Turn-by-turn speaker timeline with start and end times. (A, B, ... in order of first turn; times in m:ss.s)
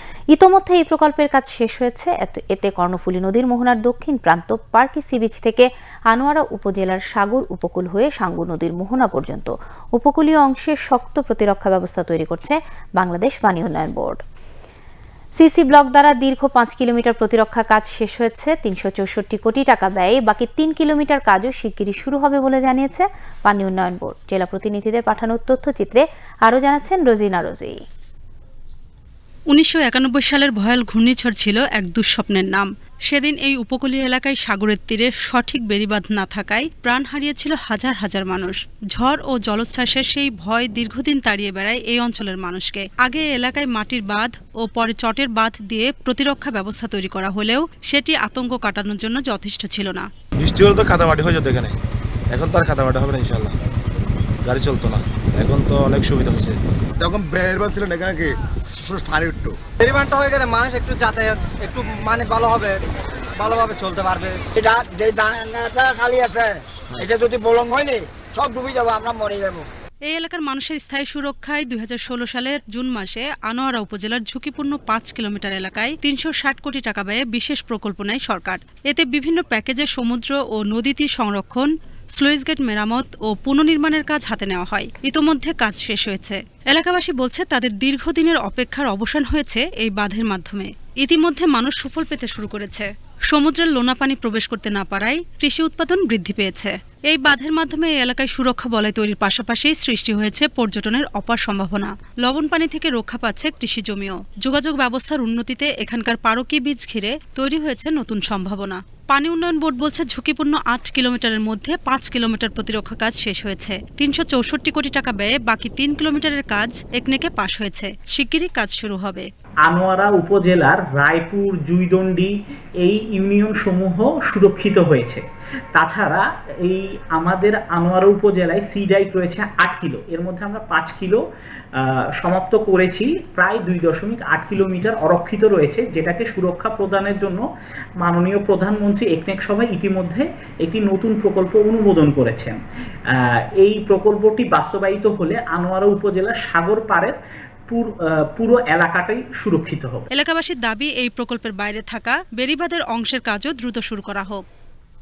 0:00.3-0:14.2 A
0:15.4-0:27.8 A
0:29.5-0:50.1 B
0:50.4-0:51.7 C
0:52.3-0:53.6 C
0:54.4-0:56.6 C
0:57.0-0:59.6 D
0:59.8-1:02.8 E
1:03.4-1:04.4 E
1:04.6-1:09.6 F
1:10.1-1:59.3 B
1:59.7-2:11.2 G
2:11.8-2:17.4 G
2:18.0-2:22.6 G
2:23.1-2:27.2 G
2:27.7-2:30.1 G
2:30.1-2:34.4 B